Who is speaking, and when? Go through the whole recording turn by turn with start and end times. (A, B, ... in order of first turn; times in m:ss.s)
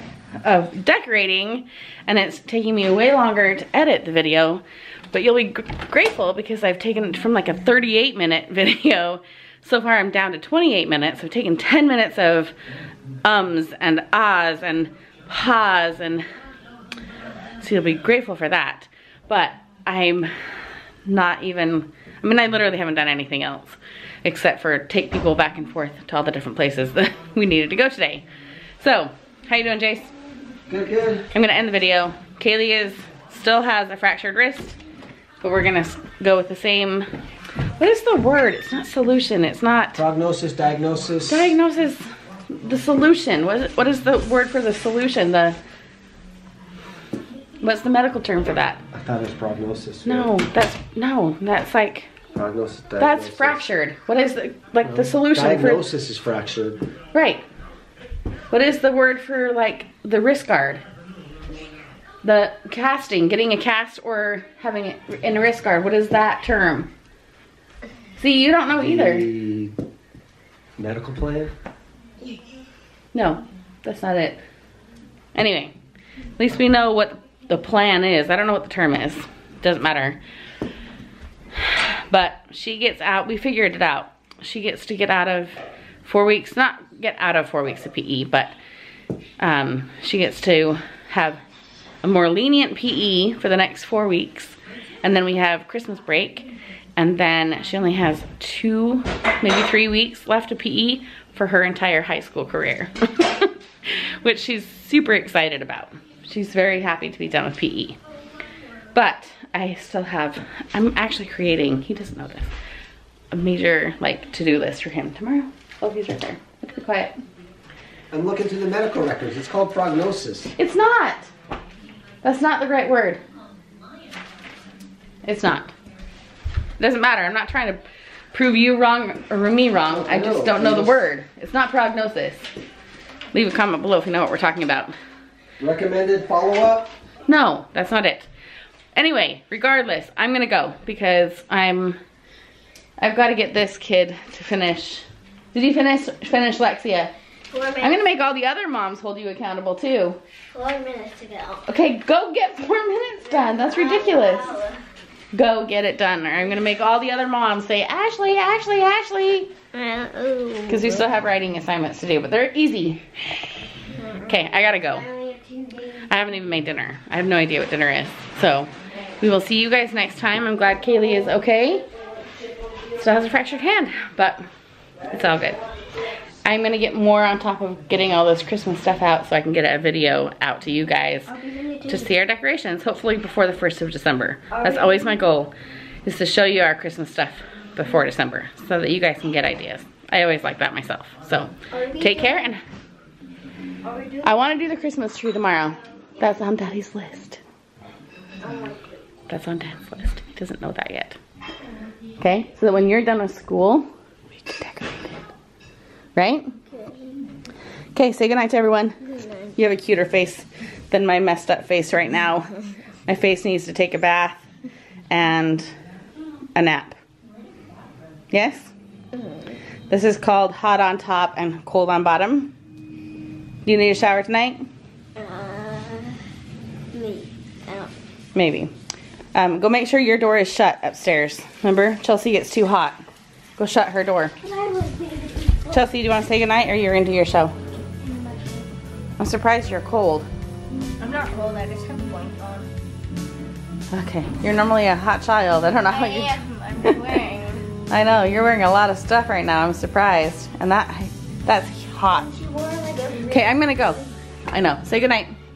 0:00.4-0:12.5 A
0:13.2-0:16.2 A
0:17.6-0:20.3 A
0:21.0-0:28.2 A
0:28.8-0:30.1 A
0:30.7-0:31.3 B
0:31.3-0:34.8 A
0:35.4-0:37.1 A
0:37.8-0:40.0 A
0:40.0-0:41.5 B
0:41.3-0:45.6 A
0:47.6-0:48.8 A
0:48.9-0:50.3 B
0:50.0-0:52.1 A
0:52.3-0:53.6 B
0:53.0-0:55.8 A
0:54.8-0:56.8 B
0:57.1-0:57.4 A
0:58.5-1:00.8 A
1:02.2-1:06.9 A
1:08.2-1:09.3 A
1:08.7-1:09.7 B
1:10.8-1:11.5 B
1:13.1-1:14.4 A
1:15.3-1:15.7 A
1:16.4-1:20.2 A
1:21.5-1:28.5 A
1:29.4-1:31.4 A
1:32.0-1:48.0 A
1:48.9-1:52.5 A
1:53.3-1:57.2 A
1:58.1-2:00.5 B
2:00.6-2:01.3 A
2:02.2-2:03.2 A
2:05.2-2:05.7 A
2:06.8-2:07.8 A
2:08.3-2:12.5 A
2:09.9-2:11.0 B
2:13.3-2:14.9 A
2:15.6-2:16.9 B
2:17.3-2:18.3 A
2:18.9-2:22.0 A
2:23.0-2:27.1 A
2:27.5-2:28.0 C
2:27.8-2:30.2 A
2:30.5-2:31.7 C
2:31.6-2:34.6 A
2:33.3-2:34.8 C
2:35.3-2:39.5 A
2:39.7-2:41.0 C
2:40.7-2:43.4 A
2:44.0-2:46.0 C
2:44.2-2:45.1 A
2:46.1-2:51.9 A
2:52.9-2:54.4 A
2:55.1-2:55.6 A
2:56.4-3:05.5 A
3:01.3-3:02.0 C
3:04.6-3:04.8 C
3:06.0-3:12.6 A
3:11.7-3:12.5 C
3:13.8-3:14.3 C
3:14.2-3:17.4 A
3:18.4-3:18.9 C
3:19.3-3:21.2 A
3:22.2-3:23.8 A
3:24.4-3:25.2 A
3:26.2-3:26.5 A
3:26.7-3:27.2 C
3:27.9-3:34.4 A
3:35.1-3:35.7 A
3:36.5-3:37.0 A
3:38.3-3:38.7 A
3:39.1-3:39.6 C
3:39.9-3:42.5 A
3:43.6-3:44.7 A
3:45.2-3:46.2 C
3:46.9-3:47.9 C
3:48.3-3:48.7 A
3:49.3-3:53.0 A
3:53.6-3:54.4 A
3:54.4-3:55.7 C
3:55.7-3:57.5 A
3:58.0-3:58.6 C
3:59.2-4:00.3 A
4:01.0-4:02.7 C
4:03.9-4:07.3 A
4:05.9-4:07.6 C
4:07.9-4:12.3 A
4:12.1-4:14.0 C
4:13.2-4:15.3 A